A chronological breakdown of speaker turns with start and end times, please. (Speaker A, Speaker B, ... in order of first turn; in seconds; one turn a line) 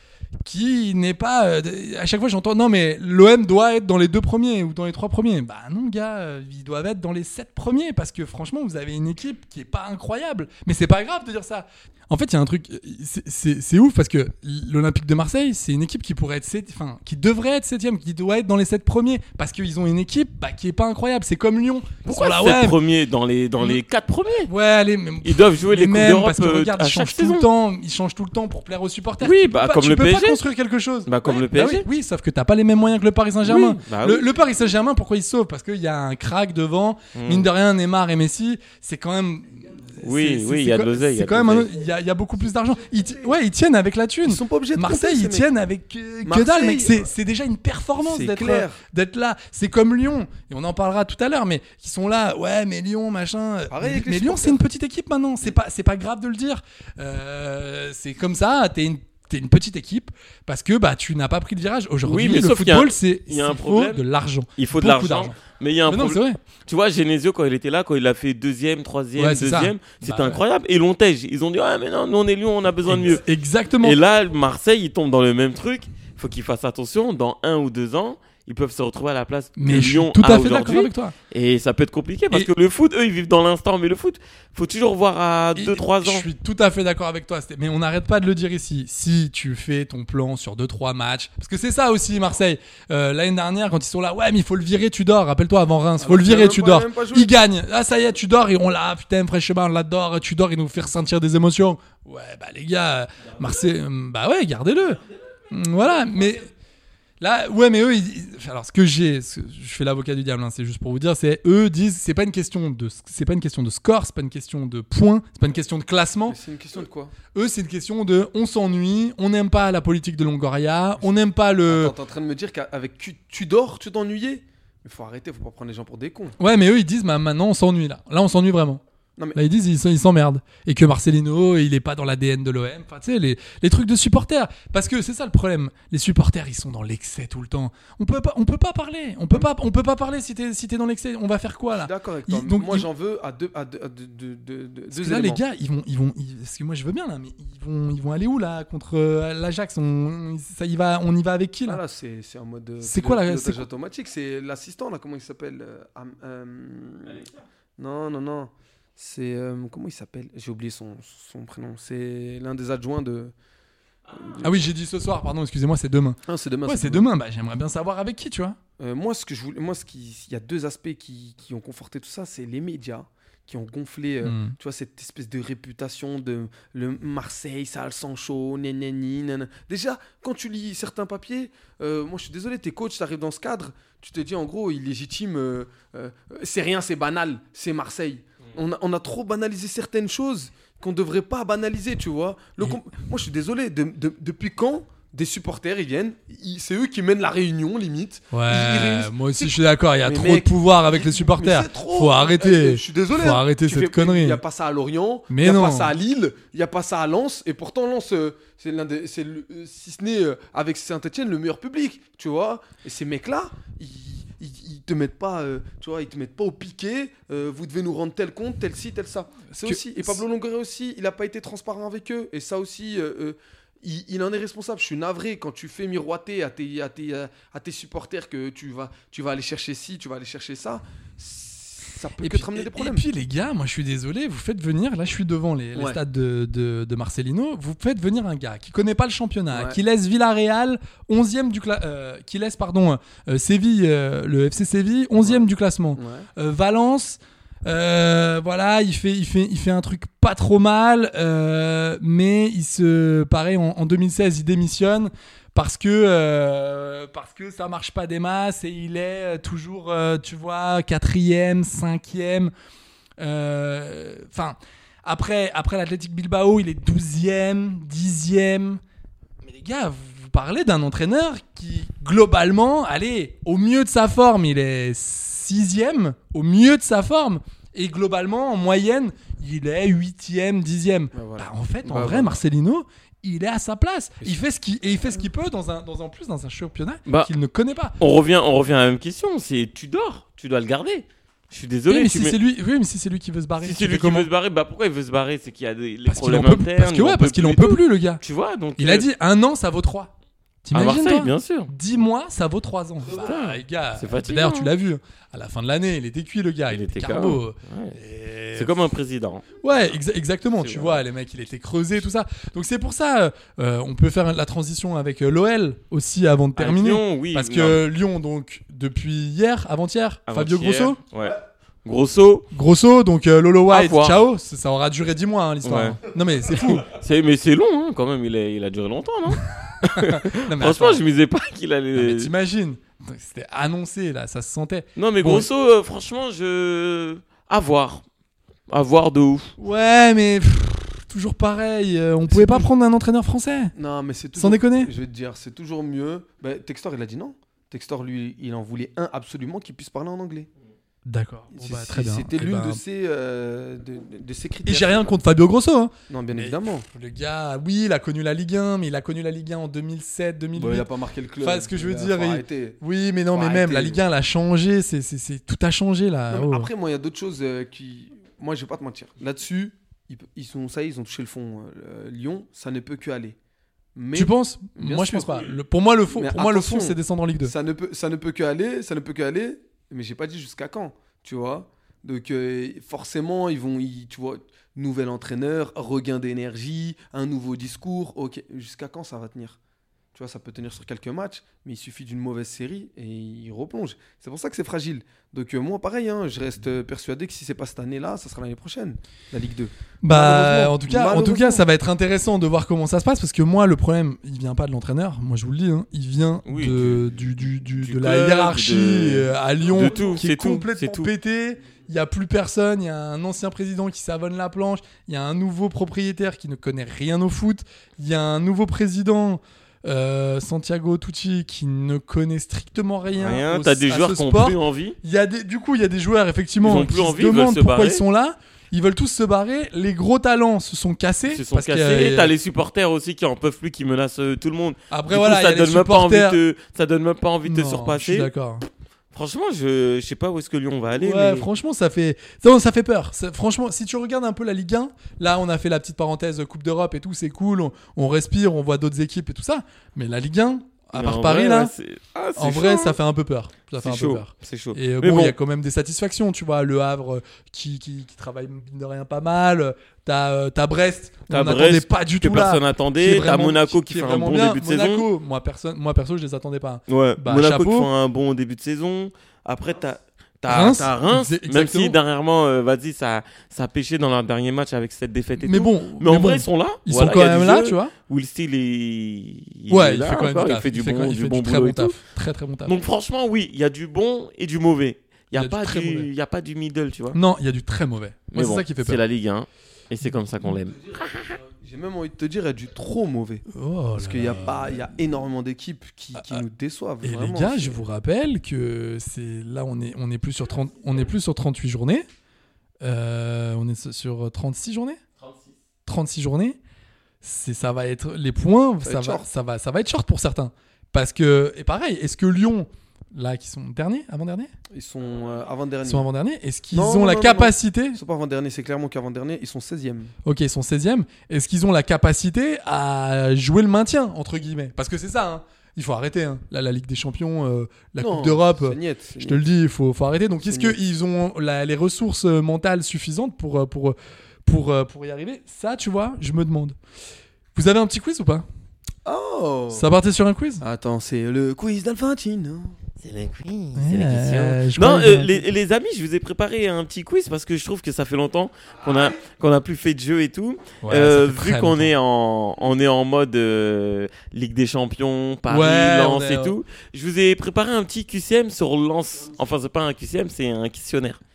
Speaker A: 0.4-22.8
Speaker B: 22.1-24.5
Speaker A: 24.5-65.4
Speaker B: 25.2-27.5
Speaker B: 29.2-30.4
Speaker B: 31.1-31.9
Speaker B: 33.4-34.3
Speaker B: 37.1-37.5
Speaker B: 40.0-41.7
Speaker C: 44.2-45.5
Speaker C: 46.3-47.1
Speaker C: 48.0-48.8
Speaker C: 53.7-54.6
Speaker B: 62.0-64.0
Speaker B: 64.6-73.2
Speaker A: 65.9-66.4
Speaker A: 69.2-70.4
Speaker A: 72.9-74.0
Speaker B: 73.8-86.3
Speaker A: 79.6-81.1
Speaker A: 85.6-106.5
Speaker C: 96.0-97.3
Speaker A: 107.2-116.4
Speaker C: 116.3-117.1
Speaker A: 117.3-122.0
Speaker C: 121.7-126.4
Speaker A: 126.4-128.8
Speaker A: 129.3-142.9
Speaker C: 141.7-145.4
Speaker A: 144.9-151.8
Speaker C: 151.7-157.3
Speaker A: 152.8-153.6
Speaker C: 157.8-163.3
Speaker C: 164.1-164.5
Speaker A: 164.4-168.6
Speaker C: 166.3-167.1
Speaker C: 168.8-233.1
Speaker A: 174.2-174.6
Speaker A: 198.3-204.4
Speaker A: 205.3-205.9
Speaker A: 219.5-220.2
Speaker A: 232.2-262.5
Speaker C: 239.5-239.8
Speaker C: 245.2-246.3
Speaker A: 263.2-268.8
Speaker A: 269.4-288.0
Speaker C: 281.1-282.4
Speaker B: 287.1-287.3
Speaker B: 288.0-292.4
Speaker A: 291.9-294.3
Speaker B: 293.6-299.1
Speaker A: 296.1-298.2
Speaker A: 298.8-300.1
Speaker A: 300.6-308.8
Speaker B: 300.7-301.7
Speaker B: 303.1-304.7
Speaker B: 306.7-308.0
Speaker B: 308.6-309.6
Speaker A: 309.6-321.0
Speaker B: 310.6-311.0
Speaker B: 316.6-317.8
Speaker B: 320.3-322.5
Speaker A: 322.5-326.9
Speaker B: 323.7-324.2
Speaker B: 325.6-326.0
Speaker B: 326.9-332.3
Speaker A: 329.7-331.0
Speaker A: 331.9-335.5
Speaker B: 334.9-338.0
Speaker B: 338.7-339.5
Speaker A: 339.6-343.7
Speaker C: 342.3-342.7
Speaker C: 343.8-350.5
Speaker A: 344.4-344.9
Speaker A: 351.1-352.8
Speaker C: 351.5-355.1
Speaker A: 354.7-360.9
Speaker C: 356.1-356.9
Speaker C: 360.6-362.8
Speaker A: 361.4-366.7
Speaker C: 363.3-364.0
Speaker C: 366.3-373.4
Speaker C: 373.9-375.6
Speaker A: 374.1-377.6
Speaker C: 376.1-389.6
Speaker C: 390.1-401.6
Speaker A: 400.0-432.3
Speaker B: 406.4-411.1
Speaker B: 423.2-425.0
Speaker B: 426.6-428.0
Speaker B: 431.3-438.3
Speaker A: 434.9-436.4
Speaker A: 437.4-438.7
Speaker B: 439.1-441.5
Speaker A: 441.0-451.7
Speaker B: 450.9-453.0
Speaker A: 452.4-467.9
Speaker B: 453.8-455.4
Speaker B: 461.3-465.1
Speaker B: 466.9-482.0
Speaker A: 470.5-471.9
Speaker A: 475.4-477.9
Speaker A: 479.7-482.8
Speaker B: 482.7-487.2
Speaker A: 485.3-486.1
Speaker A: 487.1-489.0
Speaker B: 488.3-491.4
Speaker C: 491.4-493.4
Speaker A: 493.5-494.6
Speaker C: 493.9-497.8
Speaker A: 496.1-496.4
Speaker A: 497.0-502.1
Speaker A: 502.8-505.0
Speaker B: 505.2-505.6
Speaker A: 505.9-506.6
Speaker A: 507.2-514.5
Speaker C: 508.8-509.2
Speaker C: 514.7-516.1
Speaker B: 515.1-515.4
Speaker A: 515.9-518.0
Speaker C: 516.7-520.1
Speaker A: 520.2-536.8
Speaker C: 528.0-529.4
Speaker C: 530.5-530.8
Speaker A: 537.5-538.5
Speaker C: 539.0-539.9
Speaker A: 539.7-540.6
Speaker C: 540.6-542.8
Speaker B: 543.0-561.2
Speaker A: 543.7-545.4
Speaker A: 550.8-551.9
Speaker A: 555.5-556.5